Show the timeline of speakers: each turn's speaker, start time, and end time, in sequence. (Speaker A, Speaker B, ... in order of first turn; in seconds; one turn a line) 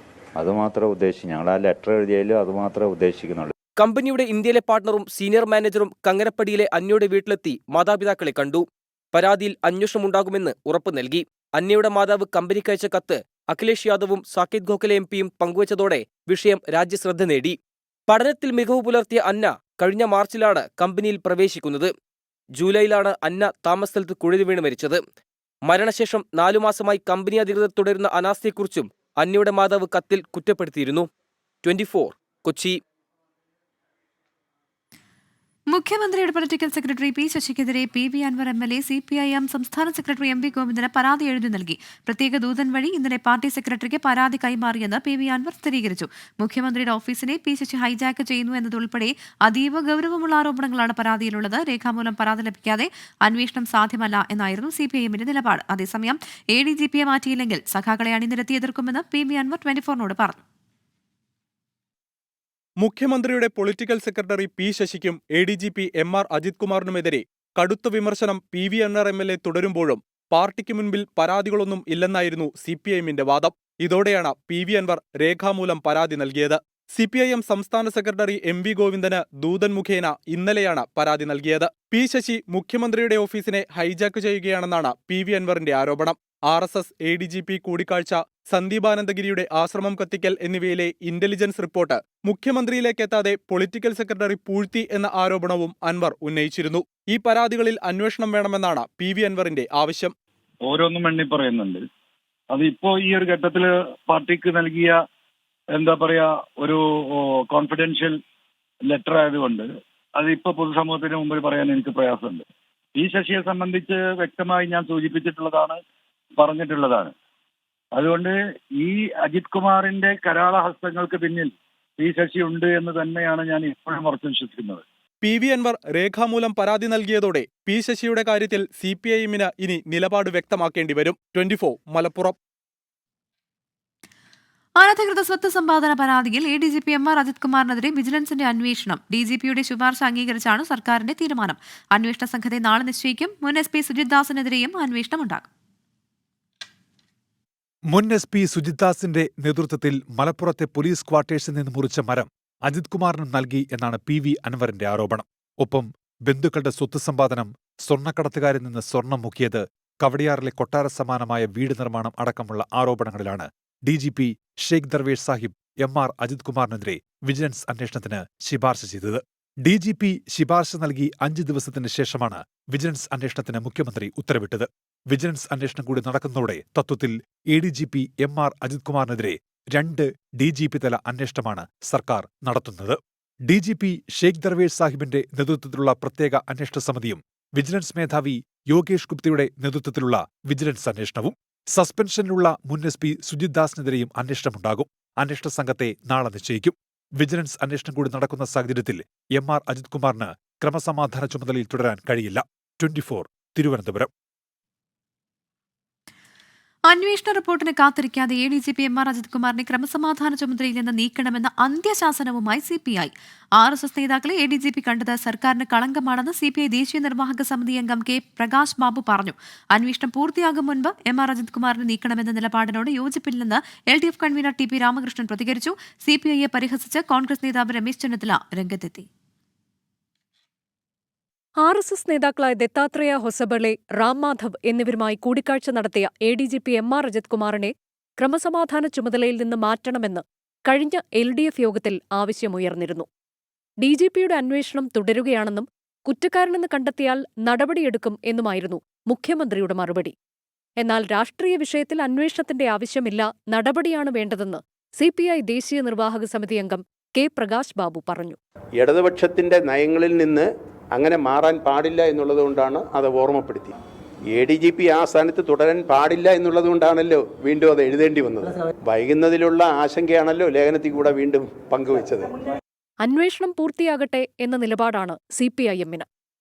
Speaker A: 0.4-3.5
Speaker B: 3.8-17.6
Speaker B: 18.1-21.9
Speaker B: 22.6-25.0
Speaker B: 25.6-31.1
Speaker B: 31.6-32.8
Speaker C: 35.7-60.4
Speaker D: 62.8-100.1
Speaker E: 100.7-101.8
Speaker E: 102.5-105.0
Speaker E: 105.8-108.2
Speaker E: 108.8-112.4
Speaker E: 113.0-115.8
Speaker E: 116.4-117.1
Speaker E: 117.9-124.8
Speaker D: 125.2-132.4
Speaker C: 134.8-145.5
Speaker F: 147.9-204.1
Speaker C: 206.9-229.1
Speaker G: 231.6-243.1
Speaker G: 243.8-250.1
Speaker G: 250.8-258.4
Speaker H: 258.7-272.3
Speaker G: 273.0-276.1